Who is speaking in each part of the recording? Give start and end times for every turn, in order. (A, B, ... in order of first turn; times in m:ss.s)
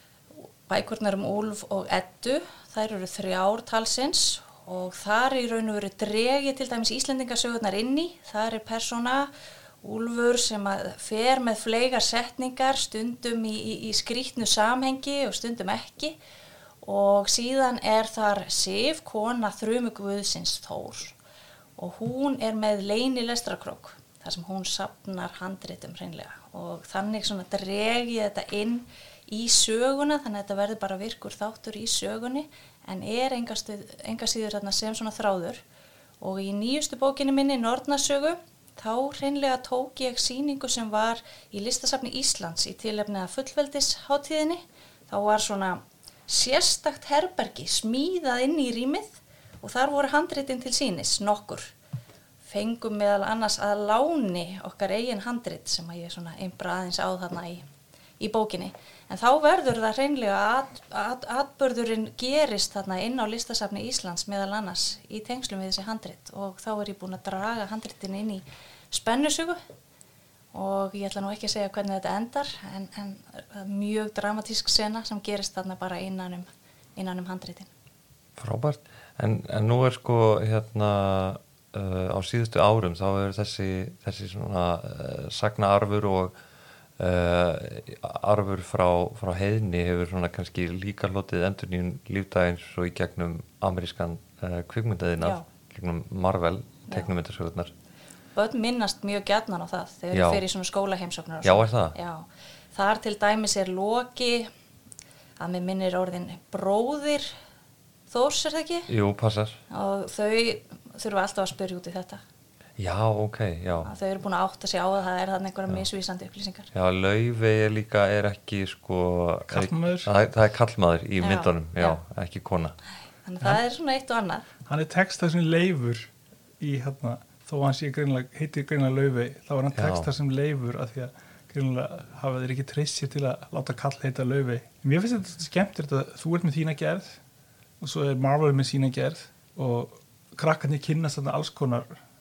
0:00.4-0:09.3 A
0:09.8-0:16.2 A
0:16.8-0:21.2 A
0:21.8-0:35.6 A
0:36.2-0:51.7 A
0:52.4-0:57.6 A
0:58.2-1:09.6 A
1:10.5-1:17.7 A
1:18.4-1:26.3 B
1:27.0-1:37.7 B
1:35.2-1:35.4 A
1:38.3-1:44.5 A
1:40.1-1:40.4 B
1:41.4-1:42.0 B
1:45.4-1:47.3 A
1:48.1-1:48.9 A
1:48.9-1:49.6 B
1:49.7-1:52.2 A
1:52.8-1:53.9 B
1:53.8-1:56.7 A
1:56.7-2:02.8 B
1:59.5-2:00.1 C
2:01.2-2:02.0 A
2:03.2-2:04.4 A
2:04.6-2:17.2 C
2:09.7-2:10.1 B
2:17.8-2:22.0 C